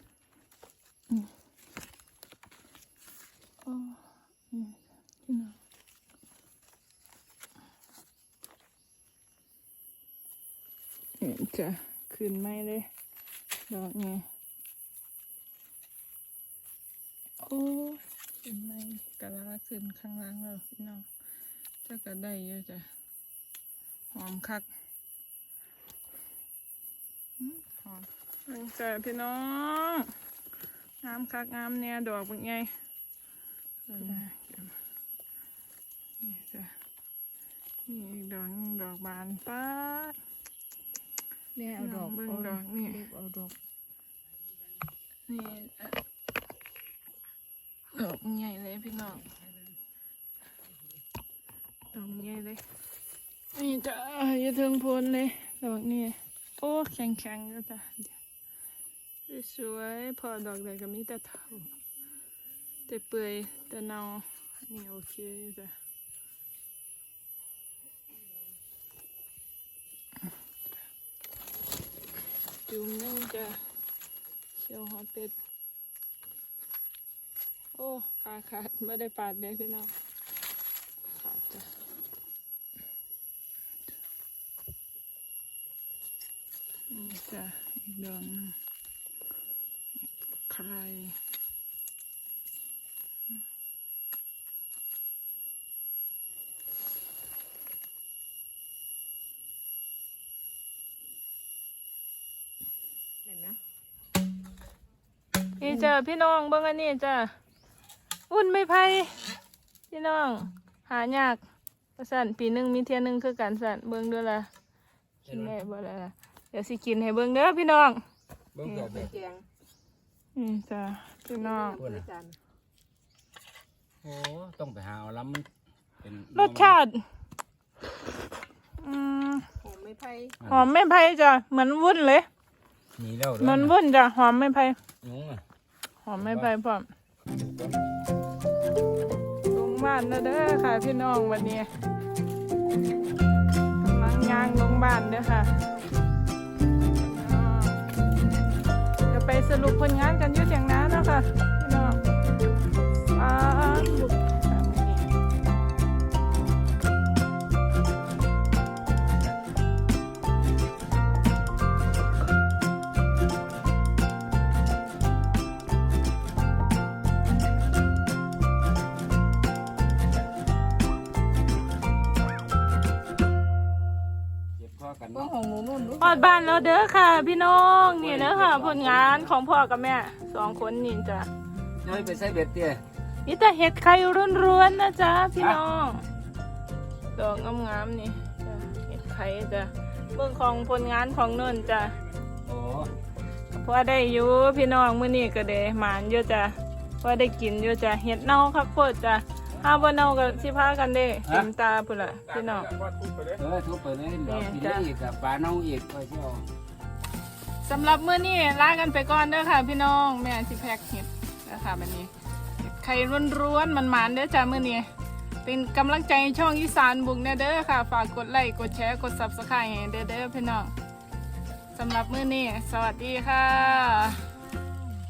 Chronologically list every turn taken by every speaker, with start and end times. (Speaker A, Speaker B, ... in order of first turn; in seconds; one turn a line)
Speaker A: 3.6-5.5
Speaker A: 11.2-12.9
Speaker A: 13.7-14.2
Speaker A: 17.4-21.1
Speaker A: 21.8-22.9
Speaker A: 24.1-24.7
Speaker A: 27.4-30.1
Speaker A: 31.0-32.7
Speaker A: 33.9-34.7
Speaker A: 36.2-36.7
Speaker A: 37.9-40.2
Speaker B: 41.5-43.5
Speaker A: 41.8-43.0
Speaker A: 45.3-46.0
Speaker A: 47.9-49.3
Speaker A: 51.9-52.6
Speaker A: 53.5-58.1
Speaker A: 59.3-61.7
Speaker A: 62.9-65.7
Speaker A: 72.7-73.6
Speaker A: 74.6-75.3
Speaker A: 77.7-79.9
Speaker A: 81.1-81.7
Speaker A: 86.9-88.5
Speaker A: 90.5-91.2
Speaker B: 103.2-103.6
Speaker A: 105.6-107.3
Speaker B: 105.7-105.9
Speaker A: 108.3-109.2
Speaker A: 109.9-111.4
Speaker A: 112.0-114.5
Speaker C: 115.2-115.5
Speaker A: 115.2-118.0
Speaker C: 118.5-119.1
Speaker A: 118.7-119.0
Speaker B: 118.8-119.5
Speaker A: 120.3-121.8
Speaker B: 121.3-122.4
Speaker C: 121.8-122.0
Speaker C: 124.0-125.5
Speaker C: 126.0-126.8
Speaker A: 126.3-127.0
Speaker A: 128.8-129.5
Speaker B: 129.6-130.4
Speaker C: 130.4-130.7
Speaker A: 130.4-132.3
Speaker C: 133.0-133.8
Speaker A: 133.4-134.8
Speaker C: 135.0-135.4
Speaker A: 136.0-136.9
Speaker C: 136.2-136.5
Speaker C: 137.3-137.8
Speaker A: 139.5-141.7
Speaker A: 143.8-145.5
Speaker A: 147.0-147.8
Speaker A: 149.1-152.0
Speaker A: 153.1-155.1
Speaker C: 174.6-175.4
Speaker B: 175.1-176.4
Speaker A: 176.0-181.3
Speaker C: 177.8-179.3
Speaker C: 181.8-182.8
Speaker A: 183.2-186.1
Speaker A: 187.1-192.0
Speaker C: 192.4-192.9
Speaker A: 193.5-202.8
Speaker C: 203.2-206.5
Speaker A: 204.2-204.9
Speaker A: 207.6-214.9
Speaker A: 215.4-220.7
Speaker A: 221.7-224.3